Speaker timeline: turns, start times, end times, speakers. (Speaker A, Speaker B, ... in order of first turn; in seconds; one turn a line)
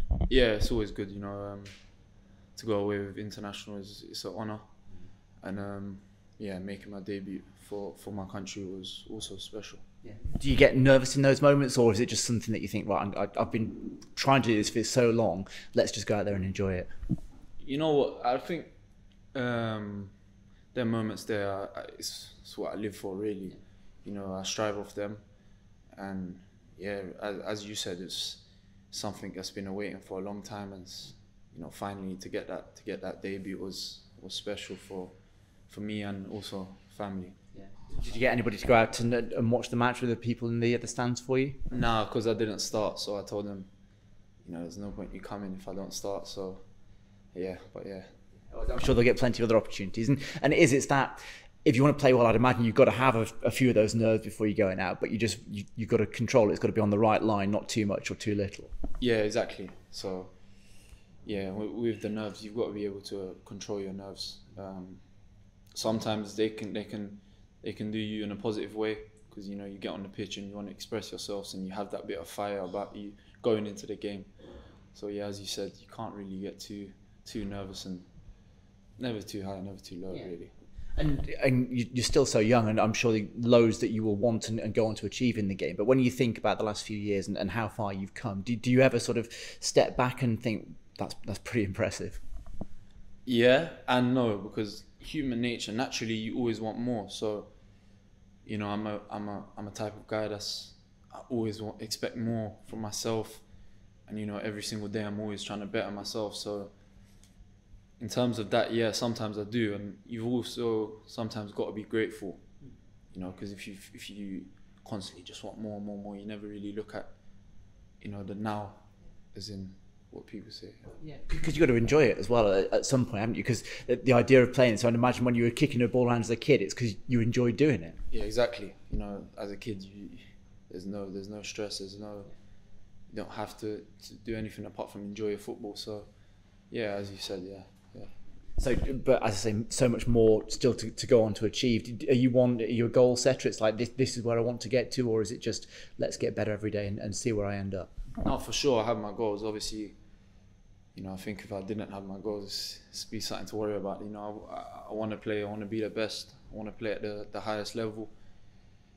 Speaker A: 0.3-1.8
Speaker A: 2.5-4.7
Speaker A: 5.4-9.8
Speaker B: 10.1-16.9
Speaker A: 17.6-18.7
Speaker A: 19.3-20.1
Speaker A: 20.7-25.2
Speaker A: 25.9-35.2
Speaker A: 35.7-37.4
Speaker B: 37.6-41.6
Speaker A: 41.7-43.7
Speaker A: 44.4-46.6
Speaker A: 47.3-48.1
Speaker B: 48.5-58.7
Speaker A: 59.0-60.3
Speaker A: 61.2-65.0
Speaker A: 65.7-74.3
Speaker A: 74.9-78.1
Speaker A: 79.0-80.5
Speaker B: 81.0-92.2
Speaker A: 93.2-97.5
Speaker A: 98.4-103.4
Speaker A: 104.1-106.7
Speaker A: 108.0-112.4
Speaker A: 113.1-117.1
Speaker A: 118.0-120.9
Speaker B: 121.0-128.0
Speaker A: 128.1-132.3
Speaker A: 133.1-136.1
Speaker A: 136.7-138.1
Speaker B: 138.6-147.9
Speaker A: 148.2-149.9
Speaker A: 150.9-158.1